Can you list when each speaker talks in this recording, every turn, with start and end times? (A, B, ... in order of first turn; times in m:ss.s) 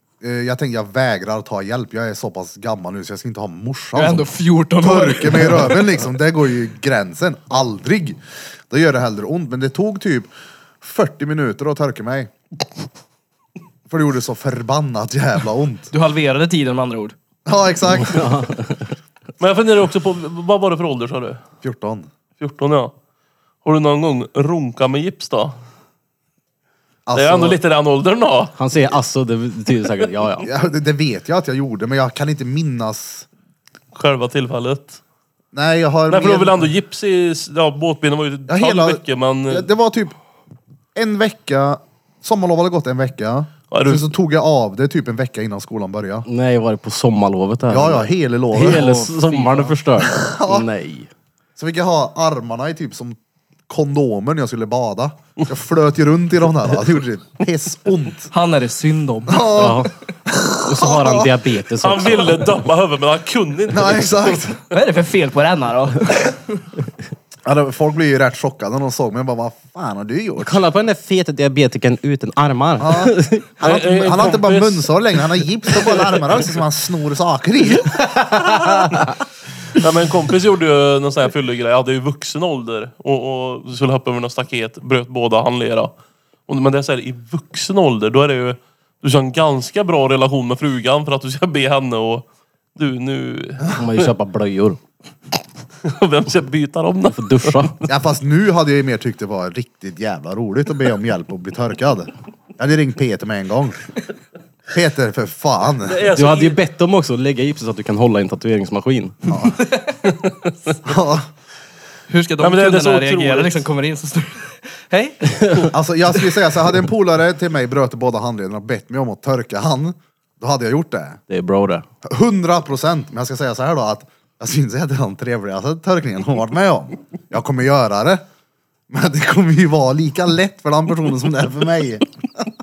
0:00.2-0:04.3 A
0:04.0-0:05.9 B
0:04.8-0:10.3 A
0:10.8-0:12.3 A
0:13.9-0:15.9 A
0:15.9-0:17.2 B
0:17.5-0:18.4 A
0:17.9-0:18.9 C
0:19.4-0:21.4 D
0:21.6-0:22.1 A
0:22.4-0:22.9 D
0:23.6-0:25.6 D
0:27.1-0:27.6 A
0:27.1-0:28.5 D
0:28.6-0:30.5 C
0:30.4-0:33.3 A
0:33.9-0:35.0 D
0:35.5-0:36.7 A
0:36.1-0:39.7 D
0:38.5-0:40.2 A
0:41.0-0:46.3 A
0:43.7-0:44.1 D
0:46.3-0:51.1 C
0:47.7-0:48.8 A
0:48.7-0:49.8 B
0:50.0-0:50.7 A
0:51.6-0:53.2 A
0:53.7-0:58.3 A
0:58.3-0:59.8 B
0:59.3-1:01.4 A
0:59.6-0:59.9 C
1:00.6-1:02.6 C
1:01.8-1:04.6 D
1:03.7-1:04.6 A
1:04.7-1:06.6 B
1:07.4-1:10.6 A
1:10.4-1:13.6 C
1:12.8-1:18.0 A
1:13.6-1:16.4 D
1:18.0-1:19.1 C
1:19.7-1:25.9 D
1:26.5-1:32.2 D
1:32.8-1:34.0 D
1:33.8-1:34.8 C
1:35.8-1:37.8 D
1:37.1-1:37.8 C
1:37.8-1:43.8 A
1:44.7-1:46.0 A
1:45.9-1:46.6 D
1:46.1-1:49.4 C
1:49.3-1:49.6 A
1:50.8-1:51.3 A
1:52.1-1:55.7 B
1:52.4-1:53.7 D
1:55.7-2:01.2 A
2:01.3-2:01.8 C
2:02.0-2:08.2 A
2:08.9-2:12.1 A